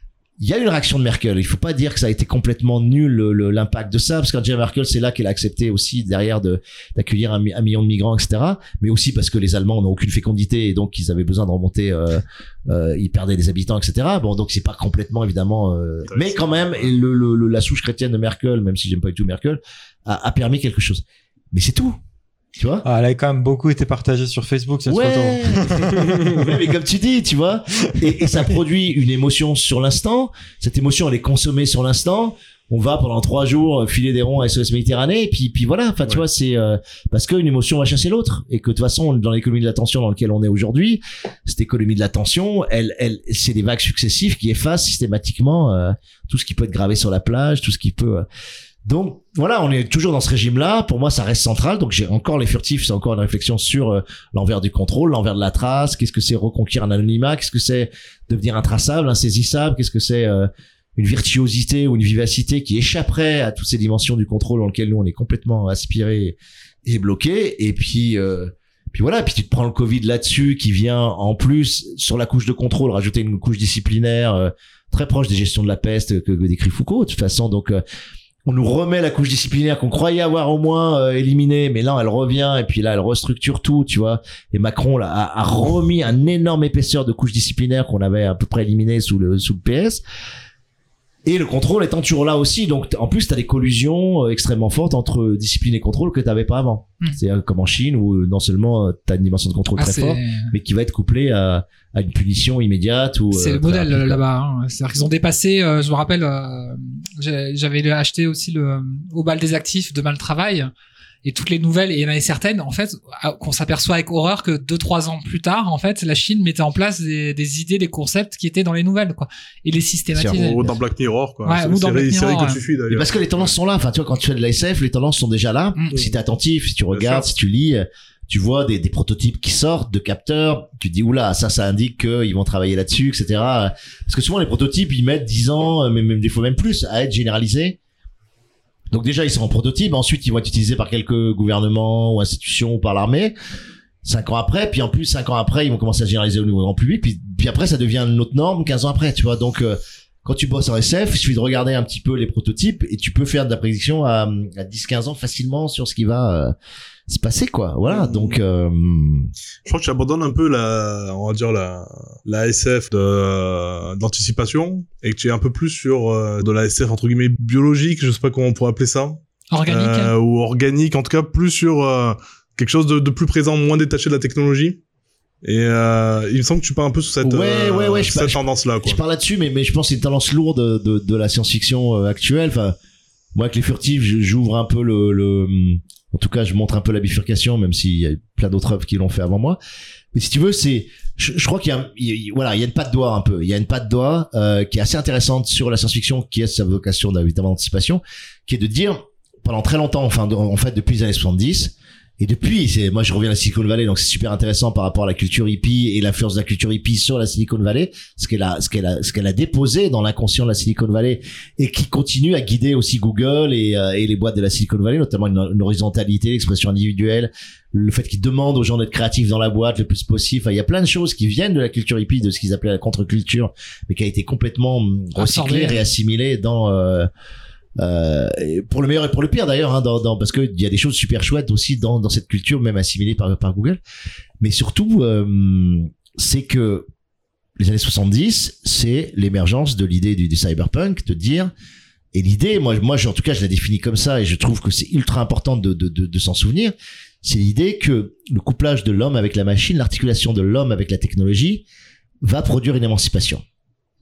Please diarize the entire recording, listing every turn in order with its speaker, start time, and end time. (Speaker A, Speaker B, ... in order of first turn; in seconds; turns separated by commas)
Speaker A: 0.4-22.0, Speaker B: 16.1-16.7, Speaker A: 22.6-22.8, Speaker C: 22.8-26.4, Speaker A: 24.9-48.2, Speaker A: 48.8-77.8, Speaker A: 78.5-90.0, Speaker A: 91.2-104.2, Speaker D: 99.7-100.5, Speaker D: 103.3-110.7, Speaker D: 111.2-120.6, Speaker A: 120.1-120.8, Speaker B: 120.3-123.5, Speaker D: 121.4-122.6, Speaker A: 122.9-137.8, Speaker B: 126.9-127.3, Speaker A: 138.9-143.3, Speaker A: 144.0-156.5, Speaker A: 157.1-159.3, Speaker B: 157.8-158.4, Speaker B: 159.7-174.8, Speaker D: 169.5-170.1, Speaker B: 175.4-179.0, Speaker A: 177.2-182.8, Speaker A: 183.3-189.6, Speaker A: 190.1-227.1, Speaker D: 225.2-225.8, Speaker A: 227.8-233.8, Speaker A: 234.4-236.9, Speaker A: 237.6-241.5, Speaker A: 242.1-251.6, Speaker A: 252.2-253.4